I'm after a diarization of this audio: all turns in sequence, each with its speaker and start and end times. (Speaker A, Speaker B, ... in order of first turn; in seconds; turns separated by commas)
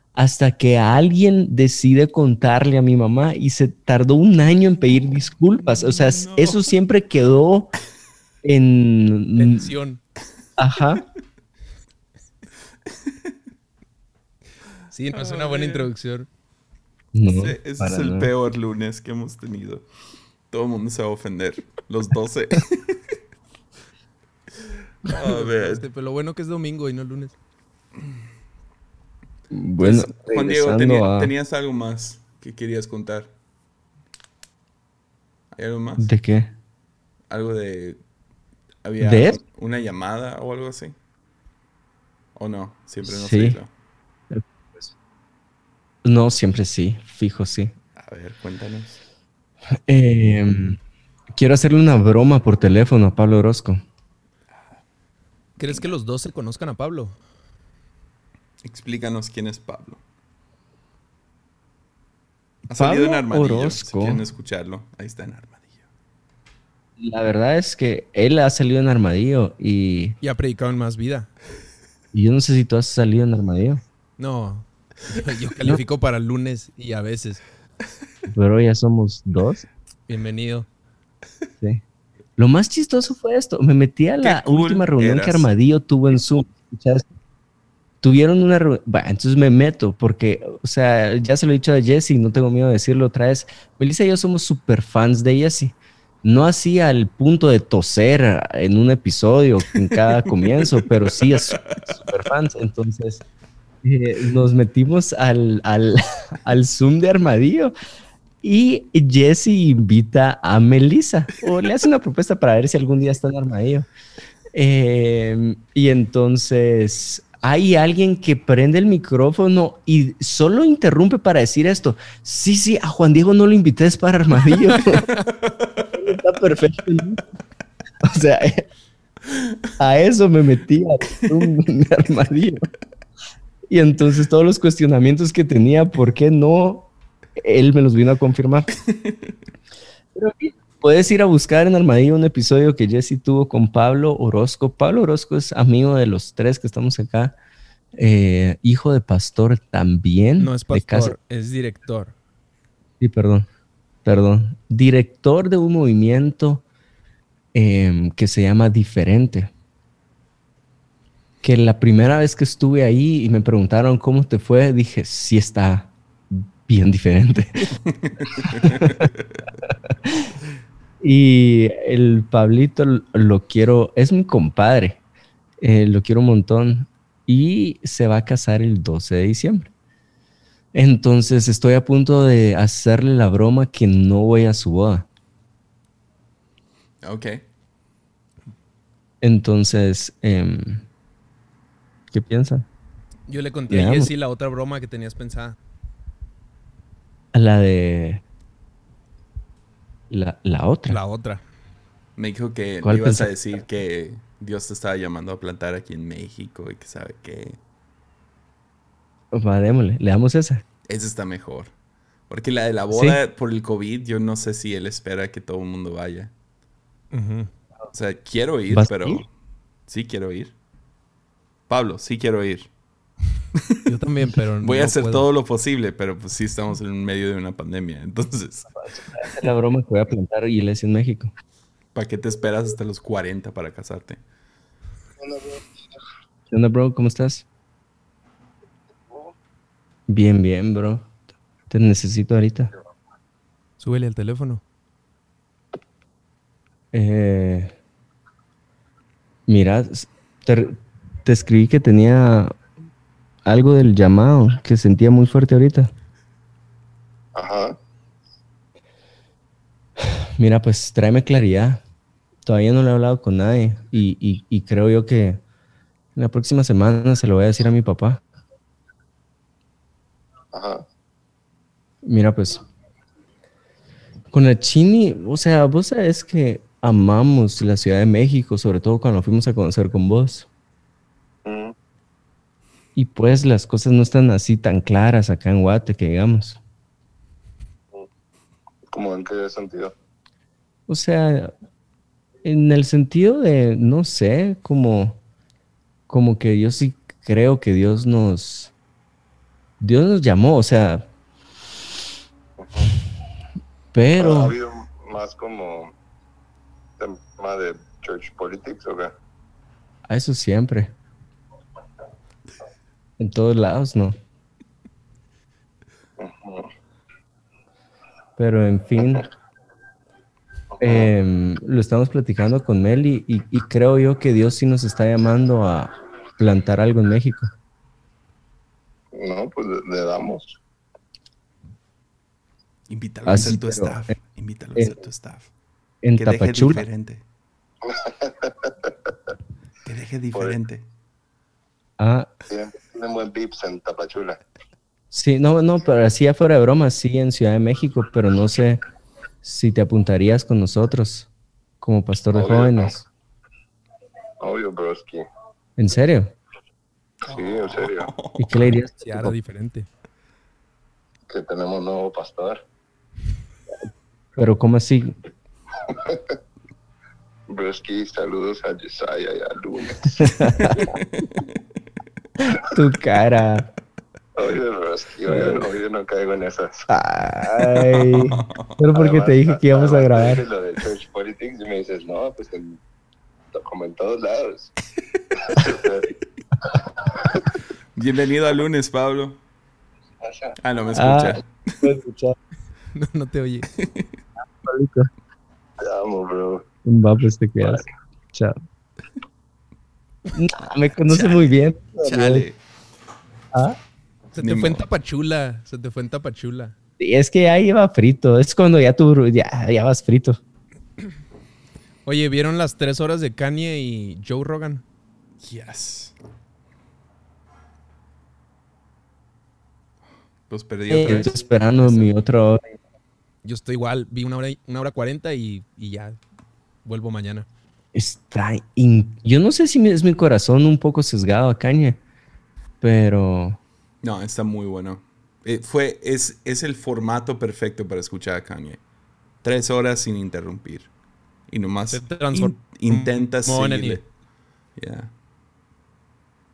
Speaker A: 0.1-7.7, Speaker B: 5.6-6.7, Speaker A: 8.4-9.7, Speaker C: 9.4-10.0, Speaker A: 10.6-11.0, Speaker B: 12.9-13.3, Speaker C: 14.9-16.3, Speaker B: 15.1-15.9, Speaker A: 17.1-18.3, Speaker B: 17.3-19.9, Speaker B: 20.5-23.2, Speaker B: 25.1-25.8, Speaker C: 25.1-27.4, Speaker A: 29.5-31.3, Speaker B: 29.8-33.3, Speaker B: 35.5-36.1, Speaker A: 36.0-36.5, Speaker B: 37.3-38.0, Speaker B: 38.8-41.0, Speaker A: 39.0-39.4, Speaker B: 42.4-43.7, Speaker A: 43.0-43.6, Speaker A: 44.3-44.9, Speaker A: 46.0-47.7, Speaker B: 48.0-49.0, Speaker A: 49.9-50.8, Speaker A: 51.3-53.8, Speaker C: 55.6-57.2, Speaker B: 58.6-60.0, Speaker B: 62.7-65.8, Speaker A: 62.8-64.2, Speaker A: 67.0-70.2, Speaker C: 70.2-71.3, Speaker A: 72.1-73.8, Speaker C: 74.2-77.4, Speaker A: 78.3-79.7, Speaker C: 80.1-80.7, Speaker A: 82.4-87.1, Speaker B: 84.2-85.5, Speaker A: 88.0-103.2, Speaker B: 100.4-101.9, Speaker A: 103.8-107.7, Speaker A: 108.4-113.9, Speaker A: 114.5-125.0, Speaker B: 125.1-125.9, Speaker A: 125.9-127.2, Speaker A: 128.0-128.7, Speaker A: 129.8-132.7, Speaker A: 133.7-138.7, Speaker B: 138.9-139.3, Speaker A: 140.2-147.4, Speaker A: 148.0-151.2, Speaker C: 150.4-152.1, Speaker A: 153.0-153.5, Speaker A: 154.1-156.6, Speaker A: 157.5-159.5, Speaker A: 161.4-167.7, Speaker B: 167.9-169.3, Speaker A: 168.3-169.1, Speaker A: 169.7-170.3, Speaker A: 171.0-175.0, Speaker A: 175.6-179.7, Speaker A: 180.7-185.1, Speaker B: 187.0-187.4, Speaker A: 189.2-190.9, Speaker A: 192.1-192.7, Speaker C: 193.3-195.6, Speaker A: 193.7-194.1, Speaker A: 197.3-198.2, Speaker A: 200.1-201.0, Speaker C: 200.9-201.4, Speaker B: 202.2-207.6, Speaker A: 202.8-203.3, Speaker A: 209.3-210.6, Speaker B: 210.9-211.7, Speaker B: 212.3-216.3, Speaker A: 212.9-213.2, Speaker C: 217.1-217.5, Speaker B: 217.9-219.3, Speaker A: 218.7-219.2, Speaker B: 219.9-220.6, Speaker B: 221.7-222.7, Speaker B: 223.5-223.8, Speaker C: 223.9-225.3, Speaker B: 224.6-228.7, Speaker A: 228.8-231.3, Speaker B: 231.9-234.2, Speaker D: 235.2-236.0, Speaker A: 236.5-237.5, Speaker D: 239.1-239.3, Speaker A: 240.1-241.1, Speaker A: 241.7-242.7, Speaker C: 243.8-244.6, Speaker A: 246.9-247.8, Speaker A: 249.5-252.6, Speaker A: 253.5-255.9, Speaker D: 257.4-257.8, Speaker A: 260.4-261.8, Speaker A: 262.4-265.4, Speaker A: 266.1-268.2, Speaker D: 270.5-270.8, Speaker A: 272.0-272.6, Speaker A: 274.3-280.5, Speaker D: 281.5-281.7, Speaker A: 282.9-286.6, Speaker D: 288.9-289.9, Speaker A: 290.9-291.5, Speaker A: 292.4-295.2, Speaker A: 296.1-298.7, Speaker A: 299.8-301.1, Speaker D: 302.6-302.9, Speaker A: 303.9-304.6, Speaker D: 304.2-305.9, Speaker D: 307.0-309.1, Speaker A: 310.1-310.9, Speaker A: 313.2-314.2, Speaker D: 316.2-316.7, Speaker A: 318.4-319.2, Speaker D: 320.8-321.1, Speaker A: 320.8-327.5, Speaker D: 329.1-330.6, Speaker B: 332.9-335.5, Speaker A: 333.3-334.1, Speaker A: 336.0-336.8, Speaker B: 336.2-337.2, Speaker D: 337.9-338.9, Speaker B: 339.9-340.9, Speaker A: 342.0-342.3, Speaker D: 342.5-344.4, Speaker A: 345.1-348.8, Speaker A: 349.4-351.3, Speaker A: 351.8-353.1, Speaker D: 352.3-353.0, Speaker D: 354.4-355.3, Speaker A: 355.8-356.4, Speaker D: 357.3-358.1, Speaker B: 357.3-358.7, Speaker A: 358.4-359.4, Speaker C: 359.0-359.9, Speaker D: 361.3-362.6, Speaker A: 364.4-365.1, Speaker D: 365.9-366.2, Speaker D: 367.5-371.0, Speaker A: 370.2-370.9, Speaker B: 370.6-371.5, Speaker A: 372.4-373.7, Speaker D: 374.4-376.9, Speaker A: 375.3-375.7, Speaker A: 376.9-380.4, Speaker B: 378.0-378.8, Speaker D: 378.9-382.8, Speaker D: 383.5-384.7, Speaker D: 385.4-386.1, Speaker D: 386.6-387.5, Speaker B: 388.0-389.4, Speaker D: 390.2-390.6, Speaker B: 390.6-391.5, Speaker A: 390.9-392.4, Speaker C: 392.9-393.7, Speaker B: 393.7-394.2, Speaker A: 394.6-395.1, Speaker D: 395.8-396.6, Speaker A: 396.9-398.6, Speaker A: 400.4-402.5, Speaker B: 401.1-402.6, Speaker A: 403.5-403.8, Speaker C: 404.3-406.8, Speaker B: 404.4-404.9, Speaker A: 407.0-410.4, Speaker C: 412.1-414.8, Speaker B: 415.4-416.1, Speaker B: 420.5-422.1, Speaker A: 420.9-422.6, Speaker C: 423.4-426.2, Speaker C: 426.9-427.5, Speaker A: 427.9-432.0, Speaker A: 432.8-433.6, Speaker B: 434.0-438.8, Speaker B: 439.4-440.9, Speaker B: 441.5-444.1, Speaker C: 441.9-444.0, Speaker B: 444.8-445.1